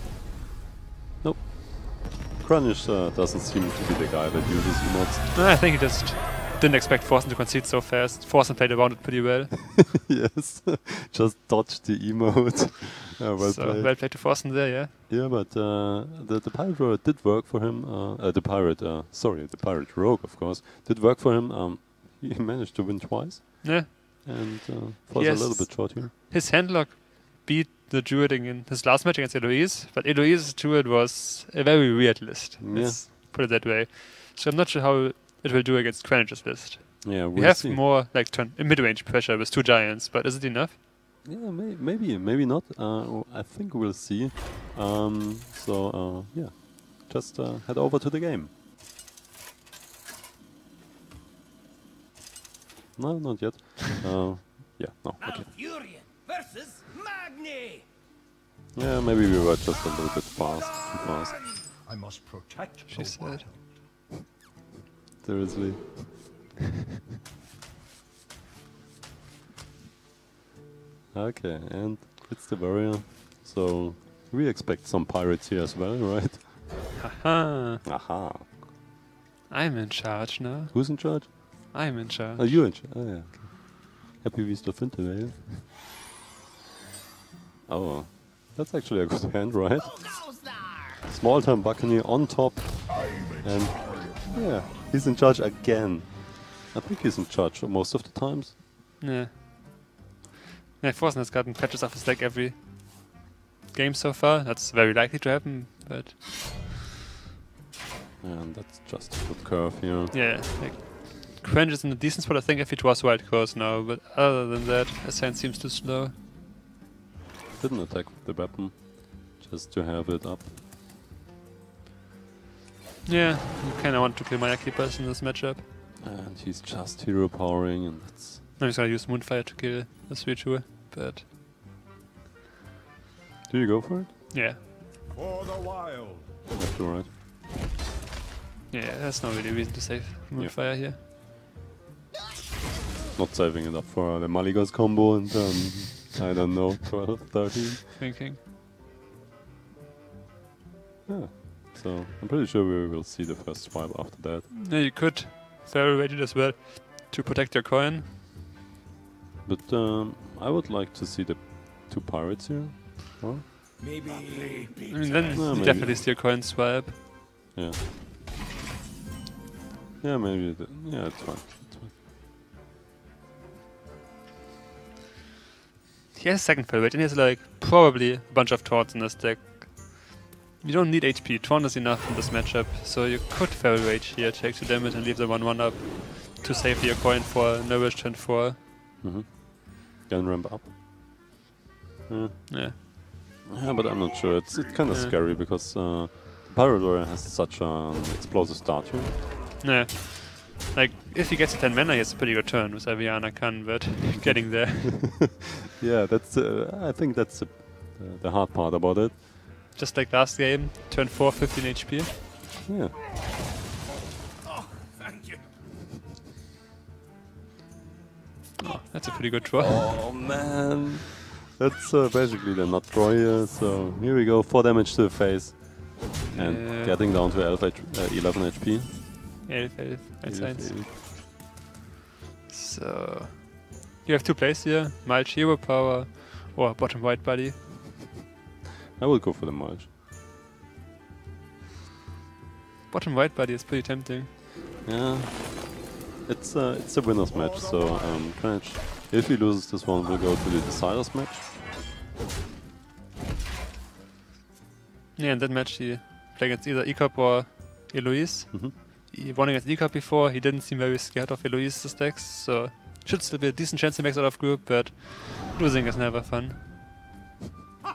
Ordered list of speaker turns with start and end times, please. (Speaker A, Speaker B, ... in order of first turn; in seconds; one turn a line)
Speaker A: 1.2-5.3
Speaker B: 5.3-9.9
Speaker A: 9.8-14.5
Speaker B: 13.4-14.9
Speaker A: 15.1-26.1
Speaker B: 23.6-24.4
Speaker B: 25.1-40.7
Speaker A: 32.6-33.0
Speaker A: 37.0-37.8
Speaker A: 41.2-48.5
Speaker A: 53.0-55.5
Speaker C: 55.3-57.8
Speaker A: 58.7-61.6
Speaker B: 62.9-63.5
Speaker A: 65.2-66.4
Speaker A: 71.1-76.8
Speaker B: 77.0-77.8
Speaker A: 77.8-78.5
Speaker B: 79.5-82.7
Speaker A: 80.7-85.7
Speaker A: 87.7-90.4
Speaker A: 91.0-98.6
Speaker B: 99.0-99.9
Speaker B: 100.8-103.2
Speaker B: 103.7-106.5
Speaker A: 108.2-110.1
Speaker B: 110.1-116.1
Speaker A: 117.6-120.5
Speaker B: 123.0-125.6
Speaker A: 126.0-128.4
Speaker B: 128.6-131.2
Speaker A: 133.5-134.2
Speaker B: 134.3-134.6
Speaker A: 136.5-137.1
Speaker B: 138.7-141.0
Speaker A: 143.1-147.9
Speaker B: 148.0-148.4
Speaker A: 151.1-154.5
Speaker B: 154.5-158.1
Speaker A: 159.4-163.4
Speaker C: 163.8-165.4
Speaker B: 164.9-167.0
Speaker A: 165.3-166.0
Speaker A: 170.0-171.9
Speaker B: 176.1-188.6
Speaker A: 189.0-191.3
Speaker A: 192.1-199.2
Speaker B: 192.5-192.8
Speaker B: 194.9-195.1
Speaker B: 199.6-205.1
Speaker A: 204.1-209.2
Speaker B: 209.7-212.2
Speaker A: 212.7-213.0
Speaker B: 218.6-220.0
Speaker A: 219.6-229.5
Speaker B: 226.2-227.0
Speaker B: 229.4-230.8
Speaker A: 230.2-230.9
Speaker B: 232.5-237.7
Speaker A: 239.0-239.9
Speaker B: 242.9-244.3
Speaker A: 244.8-251.5
Speaker B: 255.2-266.7